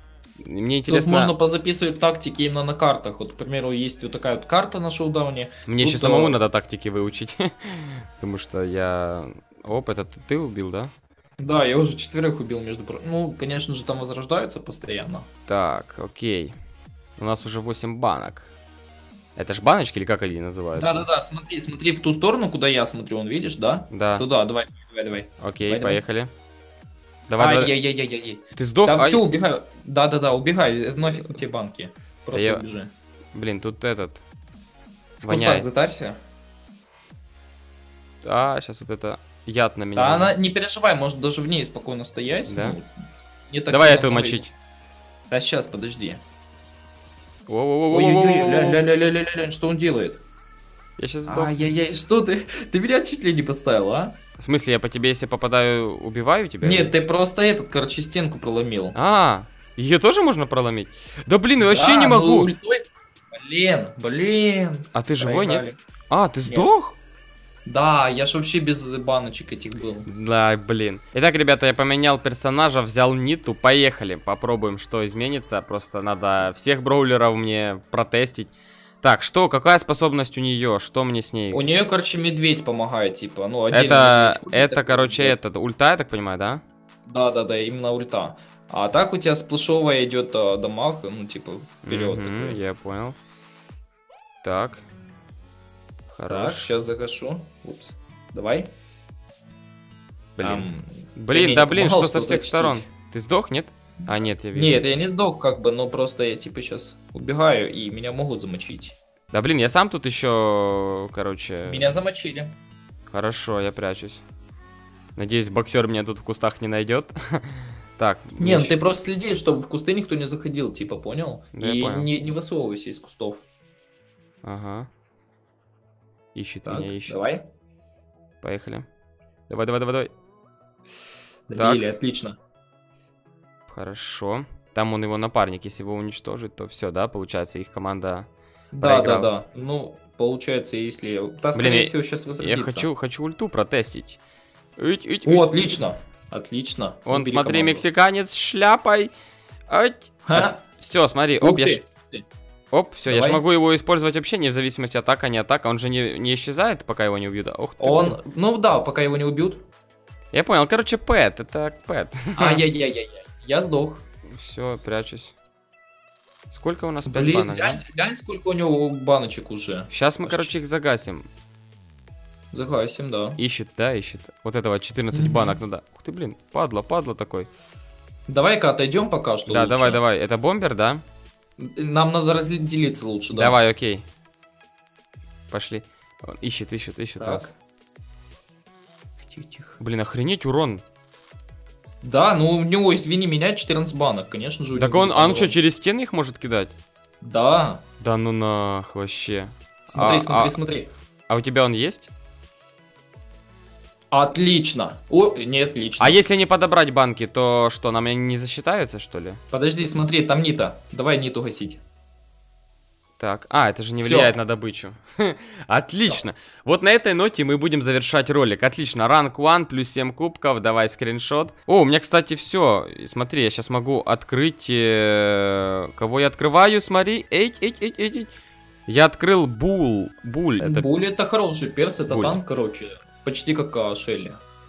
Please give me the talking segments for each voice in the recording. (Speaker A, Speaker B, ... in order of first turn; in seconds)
Speaker A: 0.4-1.3, 5.7-10.9, 15.5-16.6, 17.2-18.5, 19.4-21.1, 23.9-24.2, 25.4-26.3, 27.3-27.7, 28.6-29.2, 32.3-32.6, 33.3-34.2, 35.2-35.7, 38.2-40.3, 42.5-42.8, 43.7-44.5, 47.5-48.8, 51.0-51.5, 54.4-56.9, 59.0-62.5, 64.9-67.0, 70.1-81.7, 83.7-86.6, 91.8-93.2, 94.4-94.8, 96.1-96.7, 100.4-104.8, 109.3-111.9, 113.1-114.2, 115.2-118.8, 121.5-122.1, 124.4-124.9, 126.3-127.2, 128.4-128.9, 129.5-130.1, 131.6-131.8, 133.7-138.3, 138.8-139.3, 141.6-144.2, 144.8-145.5, 147.1-149.1, 149.7-151.8, 152.7-158.2, 160.3-162.6, 164.3-165.3, 166.5-167.8, 169.9-171.3, 173.4-177.5, 179.5-181.0, 183.3-184.1, 185.5-187.5, 189.8-190.8, 194.7-196.7, 198.0-200.5, 201.3-202.1, 206.0-209.4, 213.2-228.3, 228.9-230.9, 232.1-232.4
Speaker B: 0.9-6.4, 11.4-15.3, 20.8-26.0, 27.4-32.9, 35.2-36.2, 40.0-42.9, 43.5-44.5, 45.3-46.2, 47.9-50.2, 51.3-54.2, 56.6-59.0, 61.6-65.8, 67.7-70.1, 81.5-85.4, 87.1-92.6, 96.3-98.7, 100.4-102.8, 104.5-109.0, 111.7-112.5, 118.4-123.5, 126.7-127.4, 131.5-132.4, 138.7-142.9, 145.2-147.9, 150.3-150.6, 151.4-152.2, 153.1-153.4, 157.8-159.7, 162.4-164.0, 167.0-170.6, 172.5-173.4, 175.1-175.6, 178.3-180.0, 181.6-183.5, 187.2-187.5, 189.2-189.8, 192.0-195.6, 197.2-197.8, 199.9-200.9, 204.1-206.2, 209.5-211.8, 213.9-214.4, 215.9-216.2, 230.6-234.4